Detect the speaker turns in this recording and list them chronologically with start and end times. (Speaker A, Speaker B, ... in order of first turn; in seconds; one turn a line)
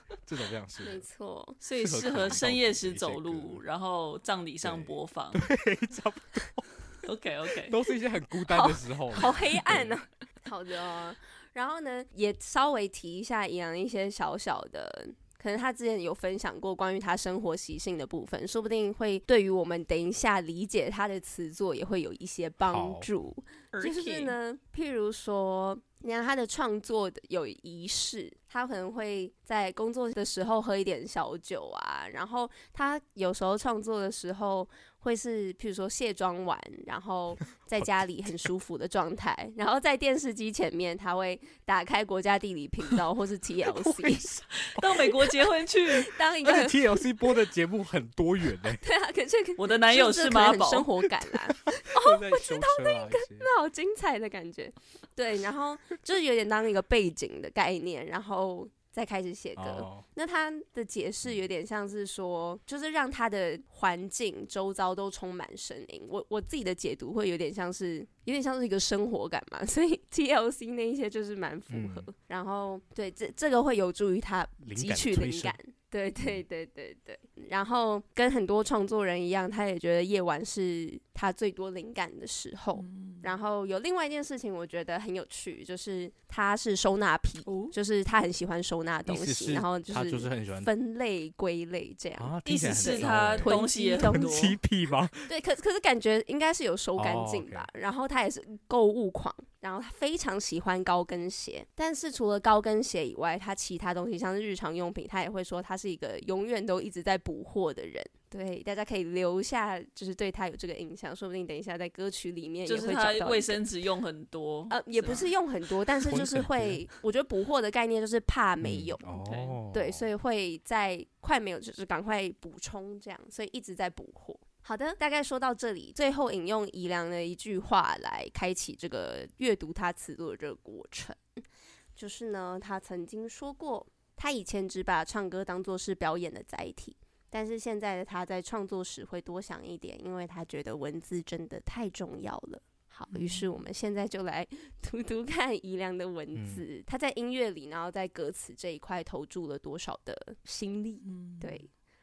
Speaker A: 0.2-1.0
Speaker B: 0.8-1.6
Speaker C: 1.6-5.5
Speaker A: 1.8-3.6
Speaker A: 4.6-6.7
Speaker C: 7.0-7.8
Speaker A: 7.7-9.9
Speaker B: 8.5-44.2
Speaker A: 22.7-23.1
Speaker C: 23.7-24.4
Speaker A: 43.7-45.1
Speaker C: 44.6-46.1
Speaker B: 46.0-47.0
Speaker A: 46.4-48.8
Speaker B: 48.8-94.4
Speaker C: 49.6-50.9
Speaker A: 51.8-53.5
Speaker A: 59.6-60.0
Speaker A: 71.7-72.1
Speaker A: 74.6-75.6
Speaker C: 82.8-83.3
Speaker C: 87.5-87.7
Speaker A: 89.1-90.7
Speaker A: 92.2-95.3
Speaker C: 92.5-94.6
Speaker B: 95.3-113.6
Speaker A: 97.0-97.7
Speaker C: 112.7-115.3
Speaker B: 114.7-119.0
Speaker A: 116.1-116.8
Speaker A: 118.6-120.1
Speaker C: 119.1-119.6
Speaker B: 119.7-131.2
Speaker B: 132.0-151.7
Speaker C: 143.1-143.5
Speaker A: 146.3-146.7
Speaker C: 151.1-151.6